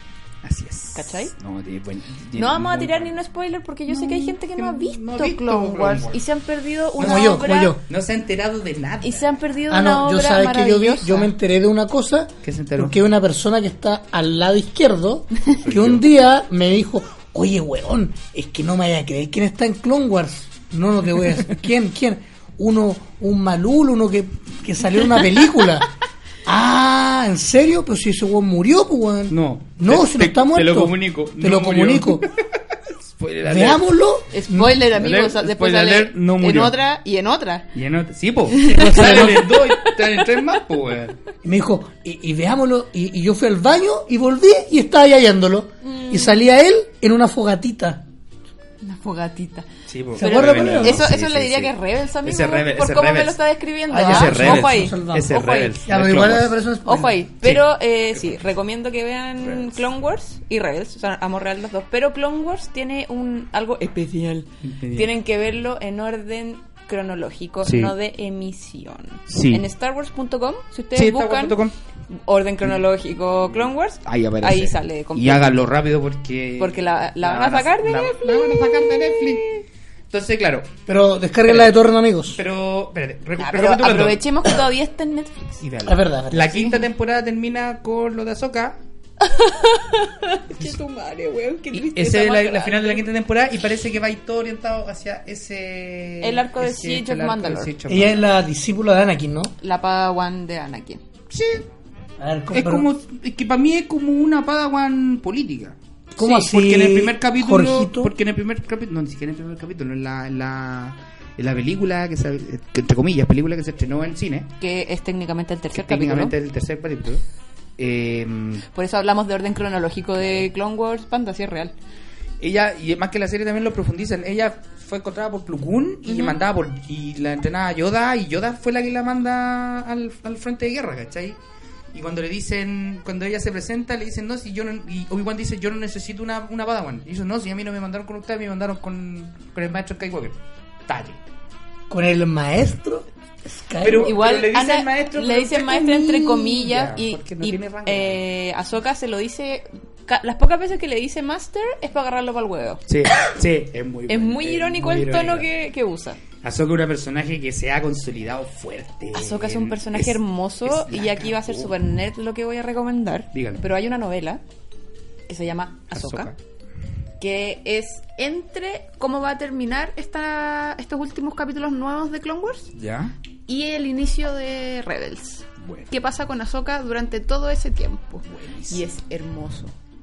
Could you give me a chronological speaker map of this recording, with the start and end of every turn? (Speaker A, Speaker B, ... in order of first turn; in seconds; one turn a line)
Speaker A: 0.4-3.1
Speaker B: 0.9-1.3
Speaker B: 2.4-7.8
Speaker A: 3.9-6.2
Speaker A: 7.0-9.4
Speaker C: 7.0-7.8
Speaker B: 9.0-11.3
Speaker C: 9.7-25.9
Speaker A: 12.4-13.0
Speaker A: 15.5-16.1
Speaker C: 26.4-32.3
Speaker A: 29.3-33.9
Speaker C: 33.4-34.8
Speaker B: 34.3-37.7
Speaker A: 34.9-36.7
Speaker A: 37.7-41.2
Speaker B: 38.5-40.2
Speaker C: 38.6-39.5
Speaker C: 41.4-48.0
Speaker B: 45.8-46.4
Speaker B: 48.8-55.7
Speaker A: 49.9-53.4
Speaker C: 50.1-51.0
Speaker C: 53.9-55.3
Speaker A: 54.0-56.5
Speaker C: 55.8-57.1
Speaker B: 56.8-71.6
Speaker A: 57.4-58.4
Speaker A: 59.4-59.8
Speaker A: 64.6-65.1
Speaker A: 67.6-67.9
Speaker A: 69.3-69.6
Speaker A: 70.9-71.7
Speaker B: 72.1-75.5
Speaker A: 73.5-79.5
Speaker B: 76.6-79.6
Speaker A: 80.1-80.8
Speaker C: 80.9-82.4
Speaker A: 81.4-81.7
Speaker A: 82.3-84.2
Speaker B: 83.4-85.6
Speaker A: 85.6-88.8
Speaker C: 85.8-86.5
Speaker B: 86.5-86.8
Speaker B: 89.2-93.0
Speaker A: 91.7-98.3
Speaker B: 96.2-97.7
Speaker C: 97.9-99.5
Speaker B: 99.6-101.0
Speaker A: 101.3-101.6
Speaker C: 102.2-102.8
Speaker A: 102.5-114.5
Speaker C: 106.2-108.1
Speaker B: 114.6-116.3
Speaker A: 115.7-117.2
Speaker A: 117.8-118.7
Speaker B: 118.7-121.7
Speaker A: 120.2-120.5
Speaker A: 122.4-131.4
Speaker B: 126.1-126.4
Speaker A: 131.9-141.2
Speaker C: 141.9-144.2
Speaker A: 143.8-148.2
Speaker B: 144.0-152.8
Speaker A: 152.9-155.5
Speaker B: 154.1-156.2
Speaker A: 156.4-161.7
Speaker B: 159.1-164.4
Speaker A: 163.3-163.6
Speaker B: 165.3-166.3
Speaker A: 165.9-166.4
Speaker B: 167.2-172.7
Speaker A: 172.7-173.1
Speaker B: 173.5-179.7
Speaker A: 175.6-175.9
Speaker A: 178.3-178.8